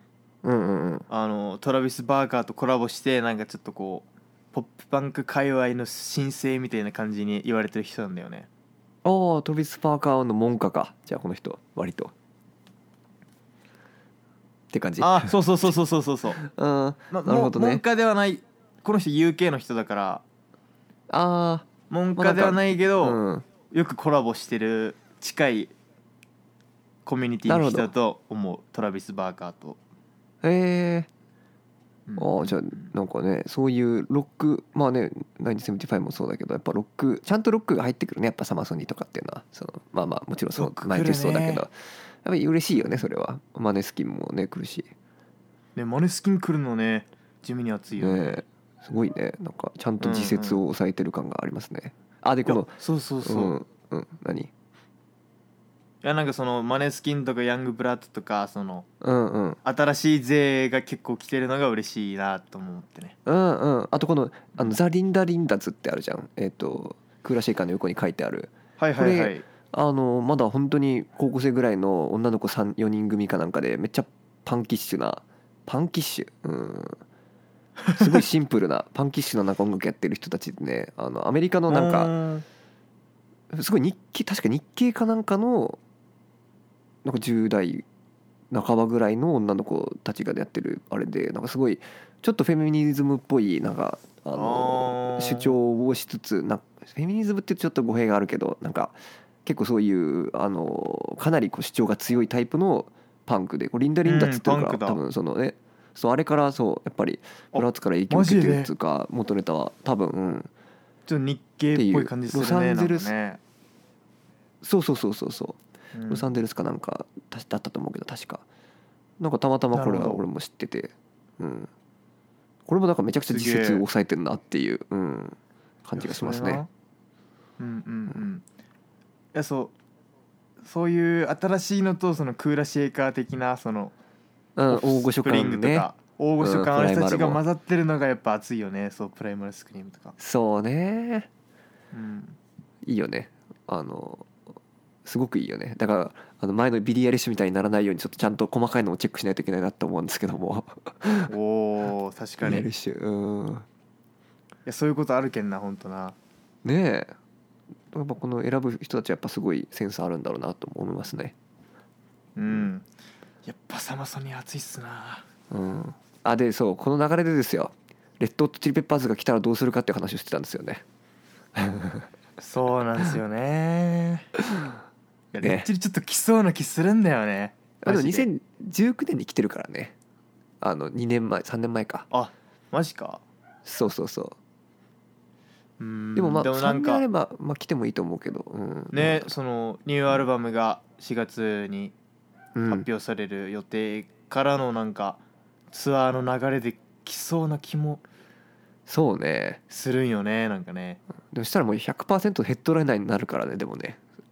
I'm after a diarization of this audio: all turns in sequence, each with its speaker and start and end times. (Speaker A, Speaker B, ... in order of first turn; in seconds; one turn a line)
Speaker A: 0.4-1.1
Speaker B: 1.1-8.5
Speaker A: 9.0-12.1
Speaker A: 14.7-15.4
Speaker B: 15.0-16.4
Speaker A: 16.4-17.8
Speaker B: 17.1-20.2
Speaker A: 21.1-23.4
Speaker B: 21.9-25.7
Speaker B: 27.1-29.8
Speaker A: 27.5-27.9
Speaker A: 30.4-31.1
Speaker B: 32.1-32.9
Speaker A: 32.2-44.9
Speaker B: 40.5-41.6
Speaker B: 42.8-43.0
Speaker B: 45.8-48.4
Speaker A: 48.0-54.5
Speaker B: 50.0-50.6
Speaker B: 52.5-53.6
Speaker B: 56.0-58.9
Speaker A: 59.0-59.6
Speaker B: 59.6-63.2
Speaker A: 63.3-77.0
Speaker B: 68.8-69.4
Speaker A: 78.0-82.1
Speaker B: 81.7-82.4
Speaker A: 83.5-85.8
Speaker A: 87.0-87.8
Speaker A: 88.5-110.5
Speaker B: 94.3-95.6
Speaker B: 104.0-105.0
Speaker B: 107.5-108.7
Speaker B: 111.1-113.4
Speaker A: 111.8-113.1
Speaker A: 114.6-118.4
Speaker B: 115.9-116.3
Speaker A: 119.2-121.7
Speaker B: 119.7-120.2
Speaker A: 122.7-126.6
Speaker B: 123.3-123.8
Speaker B: 126.0-126.7
Speaker B: 127.6-128.4
Speaker B: 129.3-129.7
Speaker B: 130.6-133.9
Speaker A: 134.6-135.9
Speaker B: 134.7-140.1
Speaker A: 136.4-137.4
Speaker A: 140.2-141.3
Speaker B: 141.9-142.4
Speaker A: 142.8-144.3
Speaker A: 145.1-151.3
Speaker B: 151.3-152.7
Speaker A: 152.4-153.7
Speaker B: 154.7-156.2
Speaker A: 156.6-157.1
Speaker A: 157.9-161.3
Speaker B: 162.4-162.9
Speaker B: 163.4-165.2
Speaker A: 165.5-170.8
Speaker A: 171.6-172.1
Speaker B: 172.4-174.3
Speaker B: 175.3-178.3
Speaker A: 175.4-175.7
Speaker A: 177.8-179.9
Speaker A: 180.6-182.1
Speaker B: 182.1-183.2
Speaker A: 183.6-184.4
Speaker B: 185.8-187.0
Speaker A: 186.2-189.3
Speaker B: 188.9-191.9
Speaker A: 192.6-192.9
Speaker B: 192.7-198.0
Speaker A: 198.9-199.6
Speaker B: 199.7-201.0
Speaker A: 201.3-204.0